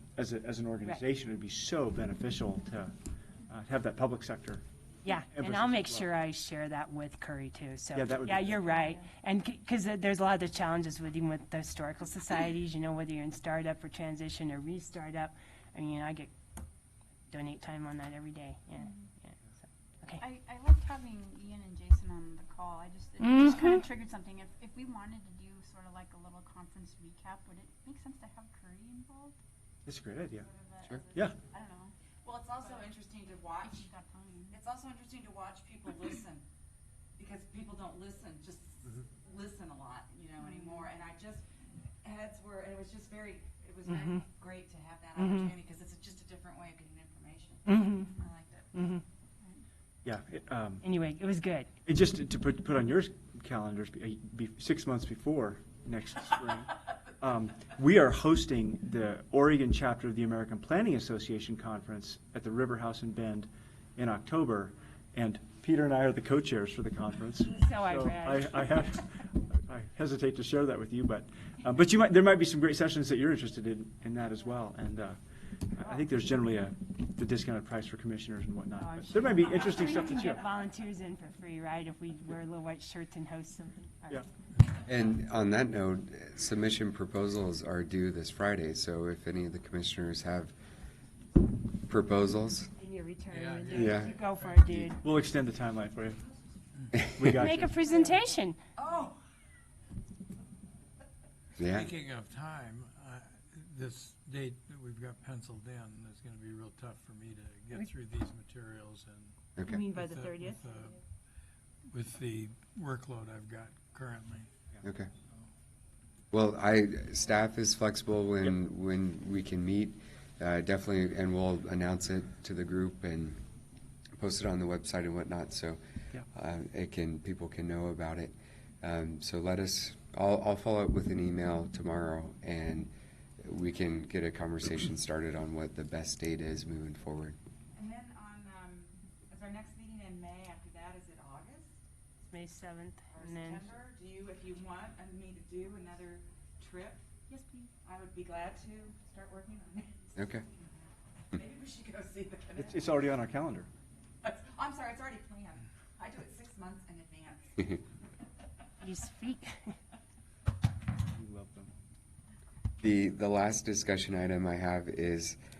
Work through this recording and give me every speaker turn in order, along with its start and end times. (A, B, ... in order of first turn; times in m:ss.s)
0:00.2-0:02.9 A
0:03.5-0:04.6 A
0:05.0-0:16.3 B
0:05.3-0:06.1 A
0:07.9-0:08.6 A
0:08.7-0:09.0 C
0:17.3-0:19.4 B
0:18.8-0:19.1 C
0:20.2-0:29.4 C
0:23.2-0:23.8 B
0:29.8-0:30.5 A
0:30.4-0:30.9 D
0:30.6-0:31.9 C
0:32.2-0:33.8 D
0:33.6-0:34.6 C
0:34.5-0:36.4 D
0:37.2-0:41.4 D
0:40.4-0:40.8 C
0:42.0-0:48.9 D
0:43.9-0:44.2 B
0:45.2-0:45.5 B
0:47.6-0:48.1 B
0:48.7-0:49.0 B
0:50.0-0:50.8 A
0:50.8-0:51.7 B
0:51.8-1:15.2 A
1:07.5-1:08.8 B
1:15.7-1:20.4 A
1:18.8-1:24.2 B
1:24.7-1:30.5 E
1:31.7-1:32.7 E
1:32.7-1:35.0 B
1:33.3-1:34.7 F
1:33.7-1:34.9 E
1:35.0-1:36.2 A
1:37.0-1:37.7 A
1:37.3-1:38.6 B
1:38.8-1:39.2 D
1:41.6-1:41.9 E
1:41.6-1:49.4 F
1:49.6-1:49.8 E
1:49.6-1:50.8 B
1:49.9-1:51.0 F
1:51.9-1:54.5 F
1:54.8-1:55.1 E
1:56.3-2:03.4 E
2:04.2-2:05.8 E
2:06.3-2:12.9 E
2:13.4-2:17.4 E
2:17.7-2:21.8 D
2:22.3-2:23.6 B
2:23.1-2:27.0 D
2:27.3-2:27.7 C
2:27.8-2:30.7 D
2:30.2-2:30.4 E
2:31.3-2:33.1 D
2:32.6-2:33.7 A
2:34.2-2:37.8 D
2:38.8-2:39.7 B
2:41.1-2:41.7 A
2:42.8-2:45.4 E